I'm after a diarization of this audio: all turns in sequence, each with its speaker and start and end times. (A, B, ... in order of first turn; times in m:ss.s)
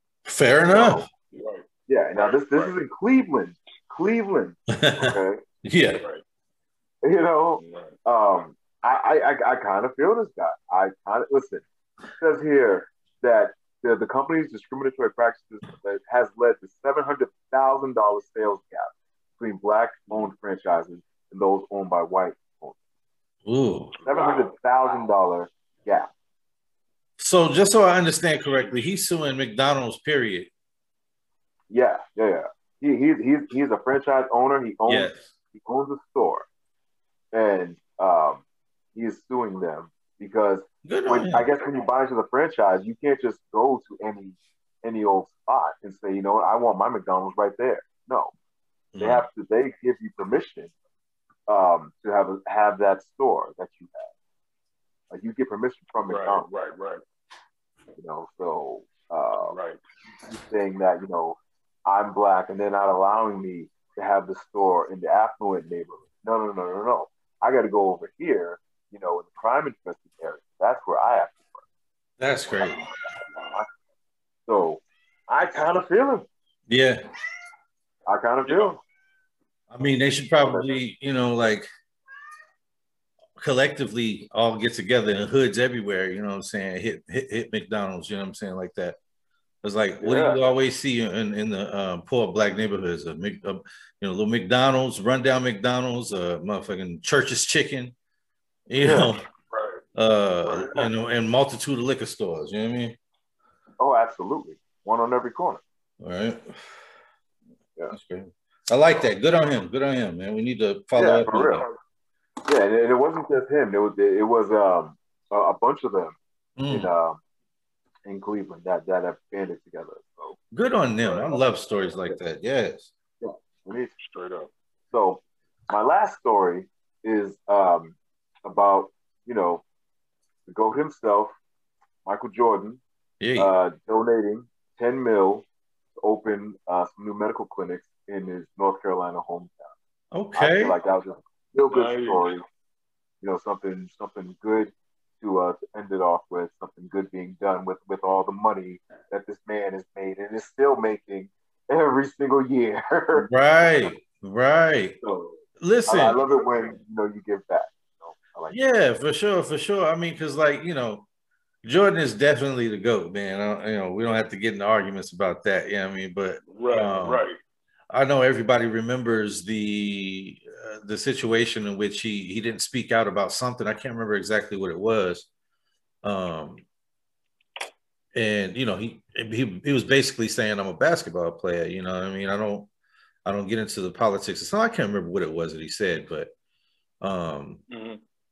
0:00.3-0:01.1 A
0:00.7-0:01.1 B
0:01.3-0:01.6 C
0:01.9-0:05.4 B
0:02.2-0:02.7 C
0:04.7-0:06.0 A
0:06.0-0:06.2 C
0:07.0-0:11.6 B
0:07.6-0:08.0 C
0:12.2-0:22.8 B
0:23.5-0:23.9 A
0:24.0-0:24.5 C
0:24.0-0:26.1 B
0:27.2-0:30.5 A
0:31.7-0:36.5 B
0:34.9-0:35.3 A
0:37.3-0:38.4 B
0:39.0-0:48.3 B
0:40.8-0:41.5 A
0:48.9-0:49.2 A
0:49.0-0:50.7 B
0:51.5-0:54.1 B
0:55.1-0:56.5 B
0:56.1-0:57.0 C
0:58.0-0:59.6 B
0:59.5-0:59.8 C
1:00.3-1:11.6 B
1:12.2-1:12.8 A
1:13.3-1:13.6 C
1:14.5-1:16.3 B
1:16.7-1:17.0 A
1:18.1-1:18.8 B
1:18.4-1:18.8 C
1:19.7-1:21.7 A
1:23.4-1:29.0 A
1:29.6-1:38.0 A
1:30.0-1:30.4 B
1:38.7-1:39.2 A
1:38.8-1:39.1 B
1:39.5-1:39.8 C
1:40.0-1:43.0 A
1:40.5-1:40.9 B
1:43.8-1:45.6 B
1:46.0-1:46.6 A
1:47.9-1:51.7 A
1:51.0-1:51.7 B
1:52.5-1:56.2 B
1:56.6-1:56.9 A
1:56.7-1:57.2 B
1:58.0-2:00.4 B
2:00.5-2:02.9 A
2:01.1-2:01.3 B
2:03.2-2:03.9 B
2:04.0-2:04.5 C
2:04.9-2:09.6 B
2:10.5-2:11.4 B
2:12.0-2:12.8 B
2:13.2-2:13.5 A
2:13.4-2:15.4 B
2:16.0-2:19.7 B
2:20.1-2:20.8 A
2:20.4-2:22.4 B
2:21.7-2:22.2 C
2:23.2-2:33.3 B
2:33.1-2:35.0 A
2:35.0-2:35.3 B
2:35.6-2:36.2 A
2:35.9-2:38.6 B
2:38.5-2:41.1 A
2:41.6-2:47.2 A
2:46.5-2:47.4 C
2:47.9-2:55.3 A
2:56.0-2:56.6 A
2:58.2-3:02.7 A
3:03.2-3:06.3 A
3:07.0-3:07.6 A
3:07.7-3:08.0 C